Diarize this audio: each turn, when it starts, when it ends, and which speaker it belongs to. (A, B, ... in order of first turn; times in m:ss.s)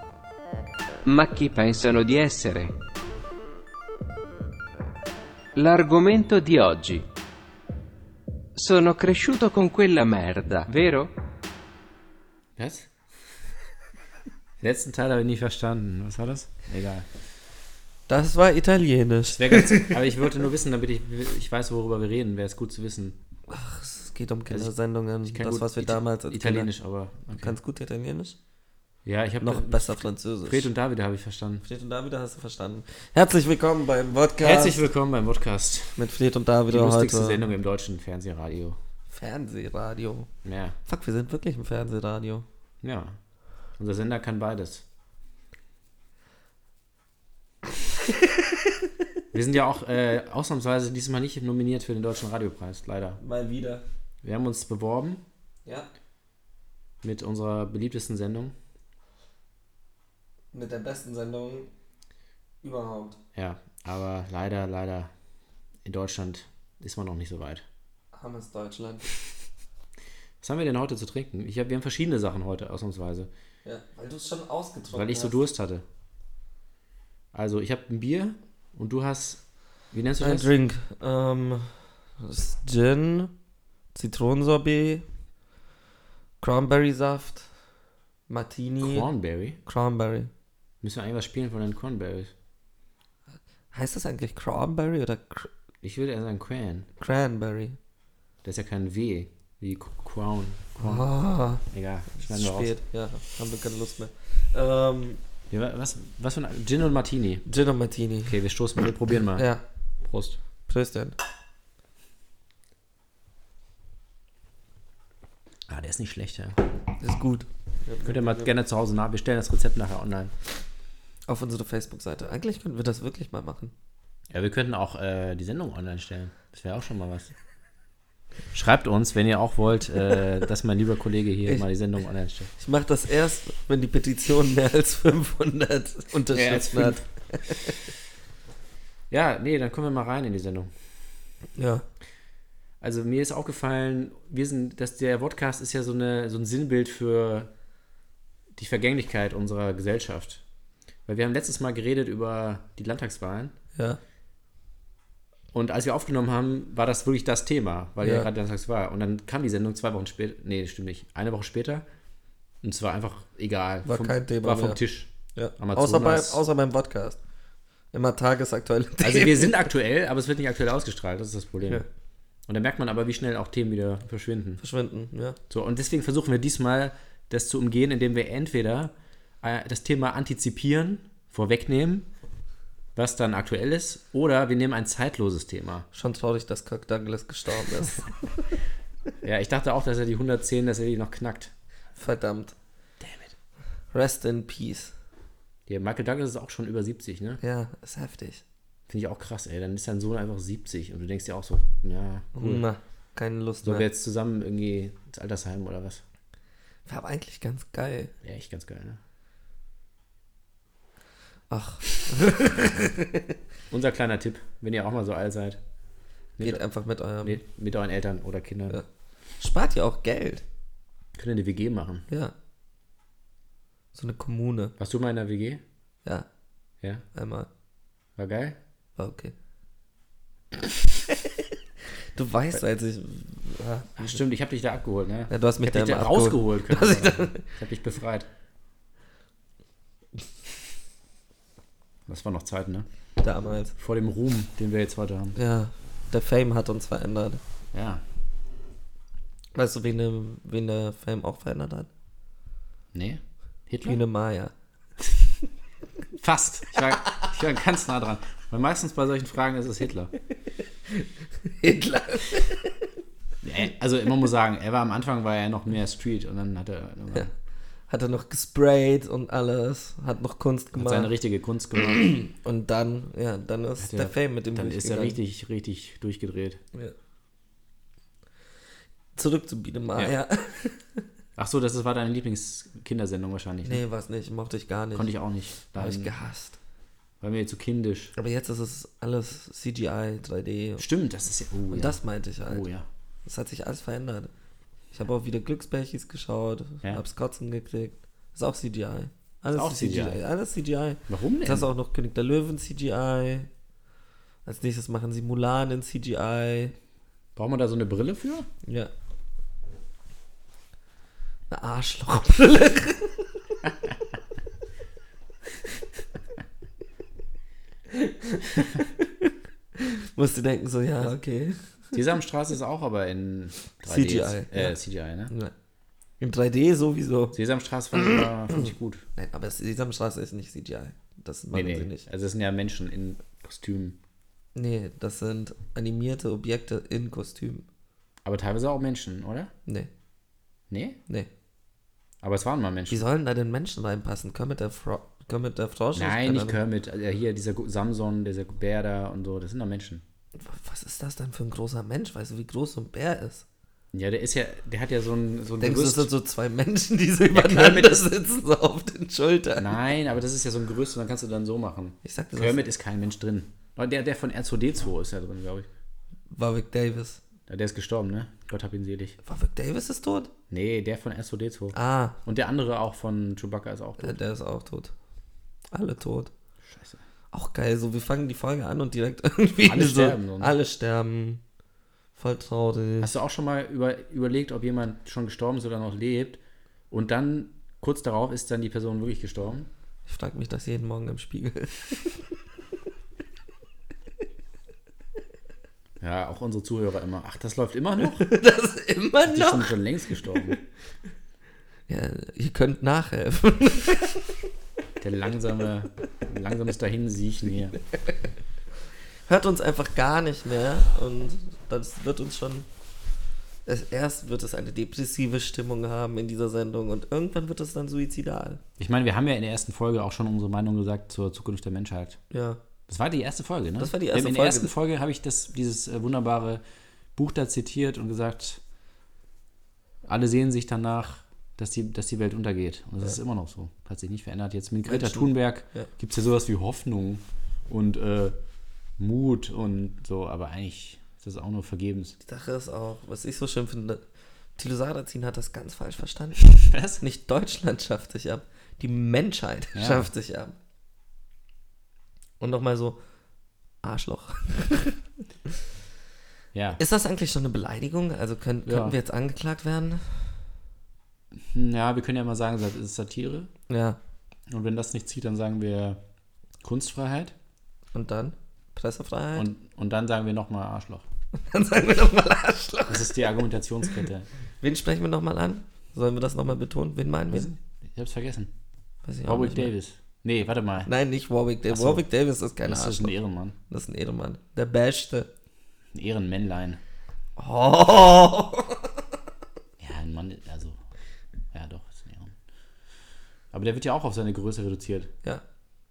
0:01.0-0:02.7 A
0:05.5-0:07.0 A
0:08.6-0:11.1 A
0:12.6-0:12.9 B
0:14.6-0:17.1 B
0:18.1-0:20.0 C
0:19.3-0:23.2 B
0:23.5-0:26.7 C
0:25.2-0:27.5 B
0:27.3-0:28.4 C
0:29.0-0:31.6 B
0:29.4-0:30.7 C
0:31.6-0:34.8 C
0:34.4-0:36.1 B
0:36.0-0:37.4 C
0:36.7-0:38.8 B
0:39.1-0:40.3 C
0:40.4-0:40.8 B
0:40.8-0:42.4 C
0:42.8-0:43.2 B
0:43.8-0:44.8 B
0:49.3-0:53.2 B
0:53.2-0:53.8 C
0:54.2-0:55.2 B
0:57.0-0:58.5 B
1:00.5-1:01.7 C
1:02.6-1:03.2 C
1:03.3-1:05.1 B
1:05.8-1:07.6 B
1:08.1-1:09.1 C
1:10.4-1:13.3 B
1:13.6-1:15.4 C
1:14.9-1:15.8 B
1:17.3-1:20.5 B
1:20.2-1:23.3 C
1:23.9-1:25.0 C
1:26.4-1:27.5 C
1:28.3-1:29.1 C
1:28.8-1:29.6 B
1:29.6-1:30.3 C
1:30.8-1:32.3 B
1:33.7-1:35.5 C
1:35.8-1:36.9 B
1:37.0-1:37.8 C
1:38.4-1:41.0 B
1:40.8-1:45.2 C
1:41.6-1:42.7 B
1:45.5-1:47.4 B
1:47.4-1:48.4 C
1:48.2-1:49.5 B
1:49.3-1:49.6 C
1:50.0-1:50.4 B
1:50.7-1:51.2 C
1:55.7-1:56.6 B
1:57.0-1:58.5 C
1:58.0-2:00.3 B
2:01.3-2:03.7 C
2:04.3-2:07.3 B
2:08.5-2:12.5 B
2:12.6-2:17.8 C
2:16.3-2:17.8 B
2:19.1-2:20.7 B
2:21.6-2:21.8 C
2:22.8-2:27.5 B
2:28.6-2:30.4 B
2:31.0-2:33.5 B
2:35.5-2:41.8 B
2:38.0-2:38.3 C
2:42.6-2:46.4 B
2:43.8-2:44.8 C
2:45.3-2:47.2 C
2:47.9-2:49.6 C
2:49.0-2:51.8 B
2:52.5-2:54.6 B
2:54.6-2:55.4 C
2:55.5-3:02.1 B
3:03.0-3:05.9 B
3:05.9-3:08.4 C
3:09.2-3:11.5 B
3:12.0-3:12.5 C
3:13.0-3:13.3 B
3:13.9-3:14.9 C
3:15.7-3:17.4 B
3:17.4-3:18.4 C
3:18.9-3:22.6 B
3:22.3-3:23.8 C
3:23.6-3:26.0 B
3:26.8-3:28.1 C
3:28.2-3:29.0 B
3:31.5-3:33.4 C
3:33.7-3:35.6 B
3:36.4-3:37.4 C
3:37.2-3:38.8 B
3:39.4-3:40.4 C
3:41.2-3:42.1 B
3:42.1-3:42.3 C
3:43.9-3:44.7 C
3:44.8-3:45.6 B
3:47.1-3:47.5 C
3:48.2-3:48.6 B
3:49.0-3:49.3 C
3:52.1-3:54.2 C
3:54.0-3:58.3 B
3:55.3-3:57.5 C
4:02.1-4:02.9 B
4:03.2-4:03.7 C
4:03.7-4:05.4 B
4:05.4-4:07.4 C
4:07.7-4:08.0 B
4:09.5-4:11.9 C
4:12.9-4:14.0 B
4:13.8-4:14.5 C
4:16.1-4:20.1 B
4:20.9-4:22.9 C
4:23.4-4:27.3 B
4:27.9-4:31.1 C
4:30.7-4:32.1 B
4:31.8-4:35.2 C
4:33.8-4:36.6 B
4:39.2-4:41.0 C
4:41.4-4:43.8 B
4:43.6-4:45.1 C
4:44.9-4:46.1 B
4:45.8-4:46.6 C
4:47.2-4:48.1 B
4:48.2-4:50.8 C
4:50.8-4:52.9 B
4:51.7-4:52.6 C
4:53.2-4:54.3 C
4:54.9-5:03.5 C
4:59.5-5:00.2 B
5:01.1-5:01.7 B
5:04.4-5:06.7 C
5:07.4-5:08.5 B
5:08.6-5:08.9 C
5:11.5-5:13.4 C
5:17.9-5:21.8 C
5:21.9-5:25.3 B
5:23.9-5:24.8 C
5:26.2-5:27.4 C
5:27.3-5:29.0 B
5:28.0-5:28.6 C
5:29.2-5:32.0 C
5:31.5-5:34.0 B
5:34.6-5:37.6 C
5:38.2-5:39.5 B
5:40.7-5:41.0 B
5:42.2-5:43.0 B
5:42.9-5:46.6 C
5:45.9-5:50.0 B
5:50.4-5:53.4 C
5:53.9-5:56.1 B
5:55.6-5:59.8 C
5:57.3-5:58.0 B
5:59.6-6:05.7 B
6:02.0-6:02.7 C
6:06.3-6:07.2 C
6:07.5-6:09.2 B
6:09.2-6:10.3 C
6:10.5-6:14.2 B
6:11.7-6:12.2 C
6:14.0-6:14.9 C
6:15.7-6:16.3 C
6:16.6-6:17.0 B
6:17.3-6:21.4 C
6:19.6-6:20.5 B
6:22.2-6:23.1 C
6:23.0-6:29.7 B
6:30.0-6:32.3 C
6:36.0-6:38.3 B
6:38.0-6:40.6 C
6:39.3-6:40.6 B
6:41.9-6:44.3 C
6:45.0-6:47.8 B
6:49.3-6:52.7 C
6:53.6-6:58.6 C
6:58.8-7:02.2 B
7:02.3-7:02.6 C
7:02.9-7:06.6 B
7:03.8-7:04.7 C
7:07.1-7:08.6 B
7:10.0-7:18.4 B
7:14.8-7:15.9 C
7:19.0-7:22.2 B
7:22.2-7:24.0 C
7:24.6-7:30.5 C
7:26.4-7:27.0 B
7:29.7-7:30.1 B
7:32.4-7:33.0 C
7:33.8-7:35.5 C
7:36.5-7:36.8 B
7:36.8-7:40.3 C
7:38.6-7:39.0 B
7:41.4-7:43.5 B
7:43.7-7:44.0 C
7:44.5-7:46.0 B
7:46.6-7:47.3 B
7:47.9-7:49.5 C
7:49.4-7:51.0 B
7:51.3-7:53.3 C
7:52.9-7:54.3 B
7:54.6-7:57.5 C
7:57.3-7:58.5 B
7:59.0-7:59.7 C
7:59.2-8:00.9 B
8:00.9-8:03.2 C
8:01.7-8:02.0 B
8:02.6-8:03.6 B
8:03.7-8:05.3 C
8:05.9-8:06.8 B
8:07.4-8:08.9 C
8:09.8-8:10.8 B
8:11.5-8:12.3 B
8:13.5-8:15.1 B